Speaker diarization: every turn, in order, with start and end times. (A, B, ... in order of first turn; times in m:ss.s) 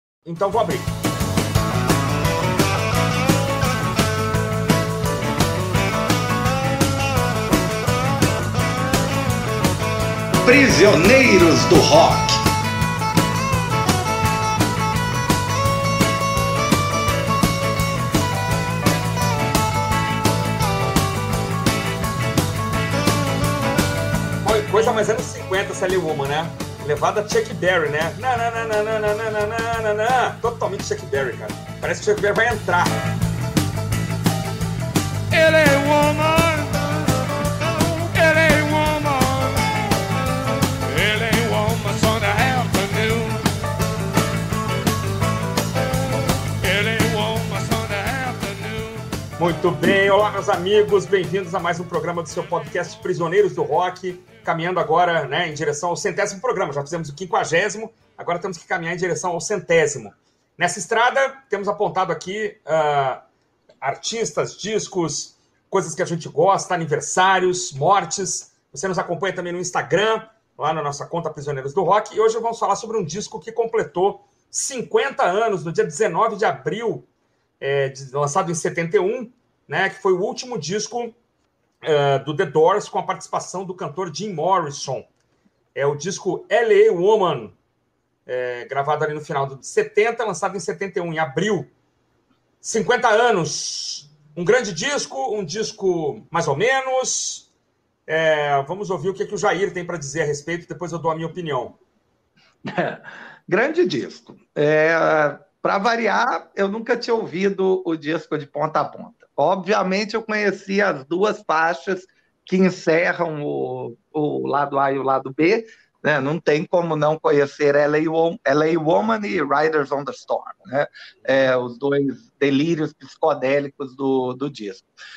0:00.2-0:00.9 A
0:10.4-0:12.4 B
0:24.4-0:32.9 A
0:35.3-0:36.9 C
0:38.1-0:39.7 C
0:40.8-0:43.5 C
0:46.6-0:49.1 C
0:49.4-1:03.2 A
1:03.8-1:17.1 A
1:17.6-1:21.2 A
1:21.8-1:25.1 A
1:25.8-1:27.6 A
1:28.3-1:31.7 A
1:32.6-1:37.5 A
1:38.1-1:41.8 A
1:42.6-2:04.9 B